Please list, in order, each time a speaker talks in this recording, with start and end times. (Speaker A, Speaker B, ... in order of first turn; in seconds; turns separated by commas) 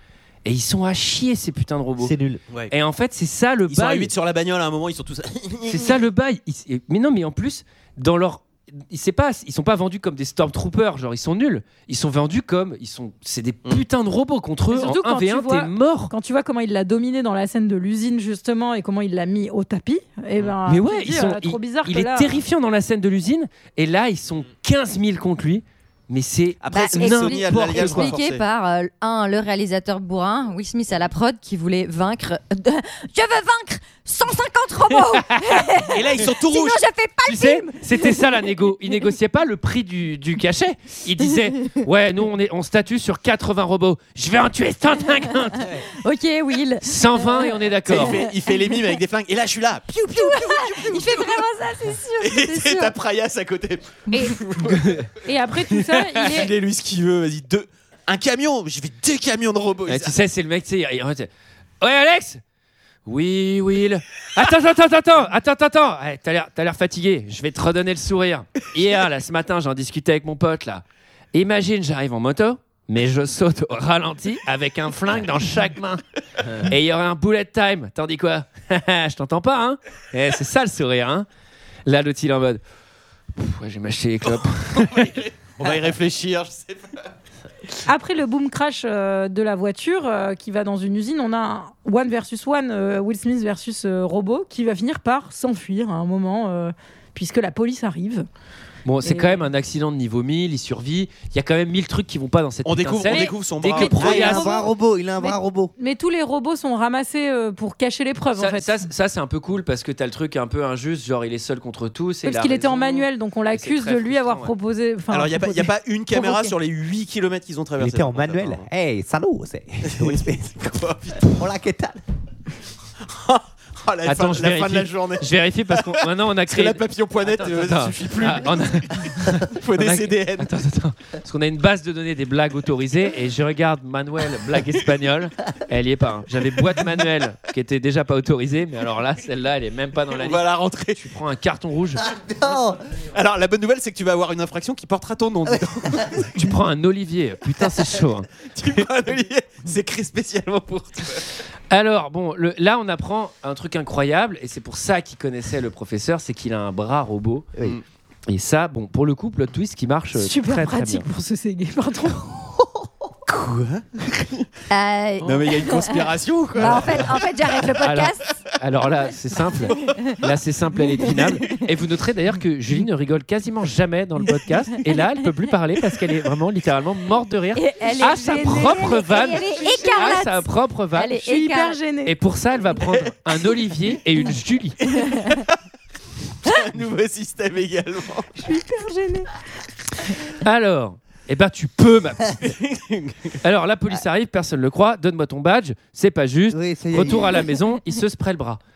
Speaker A: 0.4-2.1, Speaker B: 2.0-2.4, Speaker A: 2.7-4.1, Speaker C: 3.7-6.0, Speaker A: 5.7-16.1, Speaker D: 14.7-22.4, Speaker A: 20.6-28.1, Speaker C: 26.6-28.4, Speaker E: 26.7-38.2, Speaker A: 35.1-35.6, Speaker C: 35.8-36.8, Speaker A: 37.2-45.7, Speaker E: 41.3-41.7, Speaker E: 45.8-48.8, Speaker A: 46.8-48.1, Speaker C: 47.9-51.2, Speaker E: 49.9-52.9, Speaker C: 52.2-55.0, Speaker A: 54.6-55.1, Speaker D: 55.2-56.5, Speaker C: 56.0-60.1, Speaker A: 59.9-61.3, Speaker A: 61.8-62.4, Speaker A: 63.0-76.0, Speaker A: 76.5-81.3, Speaker A: 81.8-82.6, Speaker A: 83.3-85.2, Speaker C: 84.3-87.0, Speaker D: 87.8-98.3, Speaker A: 98.8-104.5, Speaker D: 99.0-99.4, Speaker C: 102.6-104.4, Speaker B: 103.8-105.7, Speaker D: 103.9-108.8, Speaker A: 108.3-114.5, Speaker D: 112.2-116.5, Speaker C: 115.1-118.7, Speaker B: 117.8-120.5, Speaker C: 119.8-121.3, Speaker B: 121.2-122.0, Speaker C: 123.1-130.5, Speaker A: 124.0-142.0, Speaker C: 140.1-141.0, Speaker B: 142.0-142.8, Speaker C: 143.1-146.4, Speaker B: 145.5-146.2, Speaker A: 146.3-148.3, Speaker C: 148.4-151.2, Speaker A: 151.7-157.5, Speaker A: 158.3-161.1, Speaker D: 160.1-162.5, Speaker C: 163.3-164.5, Speaker E: 164.7-168.4, Speaker C: 165.2-167.5, Speaker A: 167.8-181.2, Speaker E: 169.9-170.1, Speaker E: 171.2-171.4, Speaker E: 177.6-181.8, Speaker D: 178.3-180.3, Speaker D: 181.2-182.2, Speaker A: 182.0-184.8, Speaker C: 186.4-188.3, Speaker D: 188.4-189.3, Speaker A: 190.4-192.4, Speaker C: 192.4-193.3, Speaker A: 193.4-198.6, Speaker B: 196.5-197.5